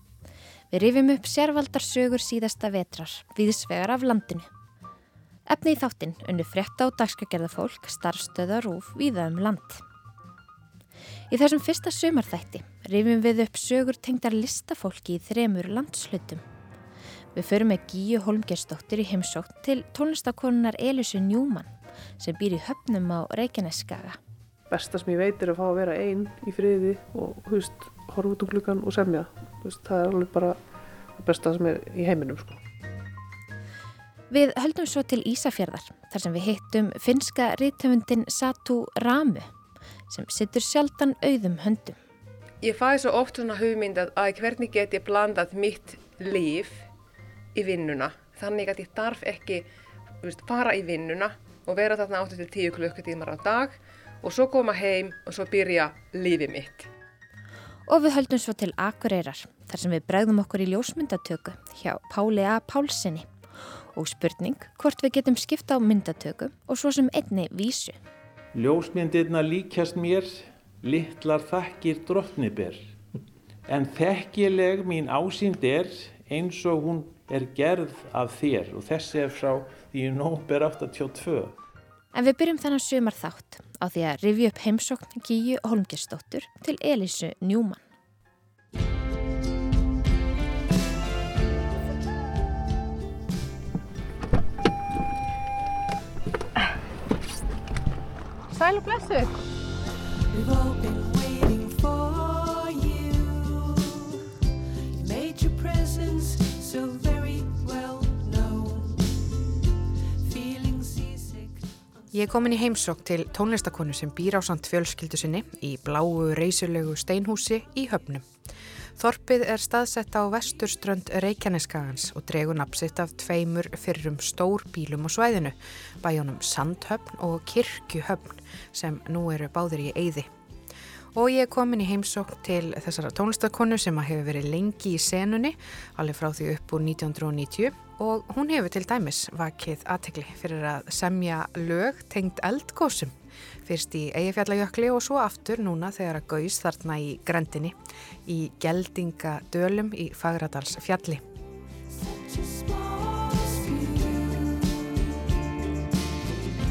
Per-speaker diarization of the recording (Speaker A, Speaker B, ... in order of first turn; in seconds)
Speaker A: 0.7-4.4, 5.5-9.8, 11.3-16.4, 17.4-21.6, 22.2-24.1, 34.3-39.4, 40.1-41.9, 57.9-63.2, 64.0-67.9, 82.2-87.8
Speaker B: 24.7-30.6, 31.2-32.6
Speaker C: 42.6-46.8, 47.5-49.6, 50.2-56.9
Speaker D: 68.5-72.8, 73.7-81.5
Speaker E: 100.3-104.2, 104.9-109.1, 110.2-111.7, 152.0-155.3
Speaker F: 112.1-118.2, 119.0-130.3, 131.1-151.2